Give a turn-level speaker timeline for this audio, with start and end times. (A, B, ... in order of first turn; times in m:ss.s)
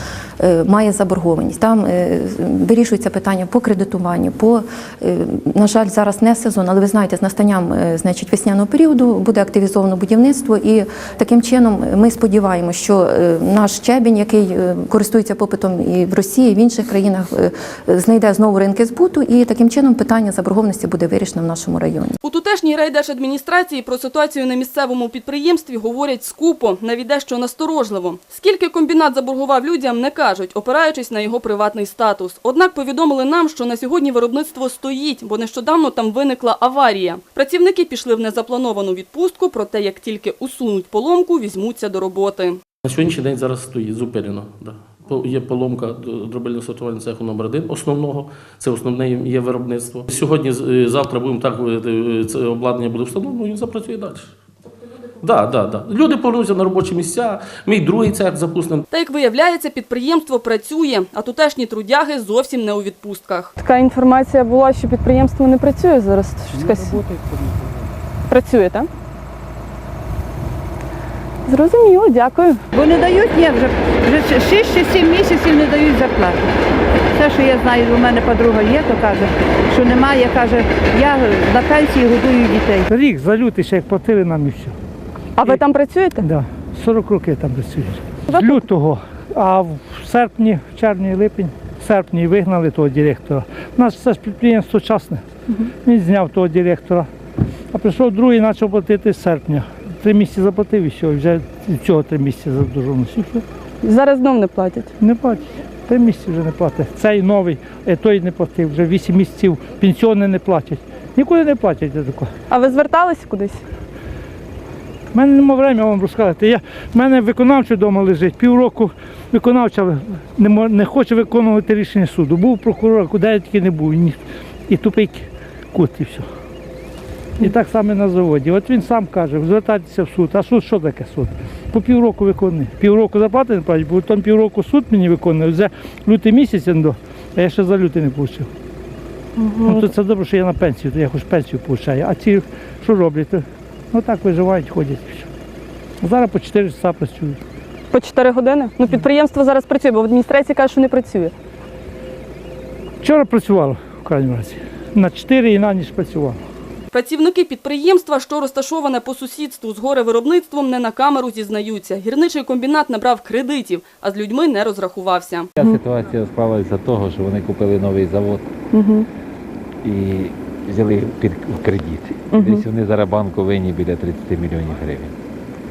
0:00.5-0:22.1 A
0:22.2-0:42.6 B
0:42.8-0:54.3 C
0:55.2-0:58.8 C
0:58.9-1:03.5 B
1:03.6-1:07.1 D
1:08.3-1:08.9 D
1:11.5-1:12.6 D
1:12.7-1:16.4 E
1:17.2-1:22.8 E
1:22.9-1:24.7 F
1:25.4-1:26.3 D
1:26.2-1:35.2 F
1:28.3-1:28.7 D
1:35.8-1:37.1 F
1:37.7-1:43.4 F
1:43.8-1:44.9 D
1:45.0-1:52.3 F
1:52.5-1:53.6 D
1:55.1-2:06.2 F
2:07.4-2:18.5 F
2:19.4-2:19.9 D
2:19.6-2:25.3 F
2:26.0-2:27.4 F
2:27.9-2:31.3 D
2:33.0-2:36.4 F
2:36.9-2:45.5 B
2:45.6-2:48.4 G
2:48.7-2:49.1 D
2:49.8-2:55.1 G
2:52.3-2:52.6 D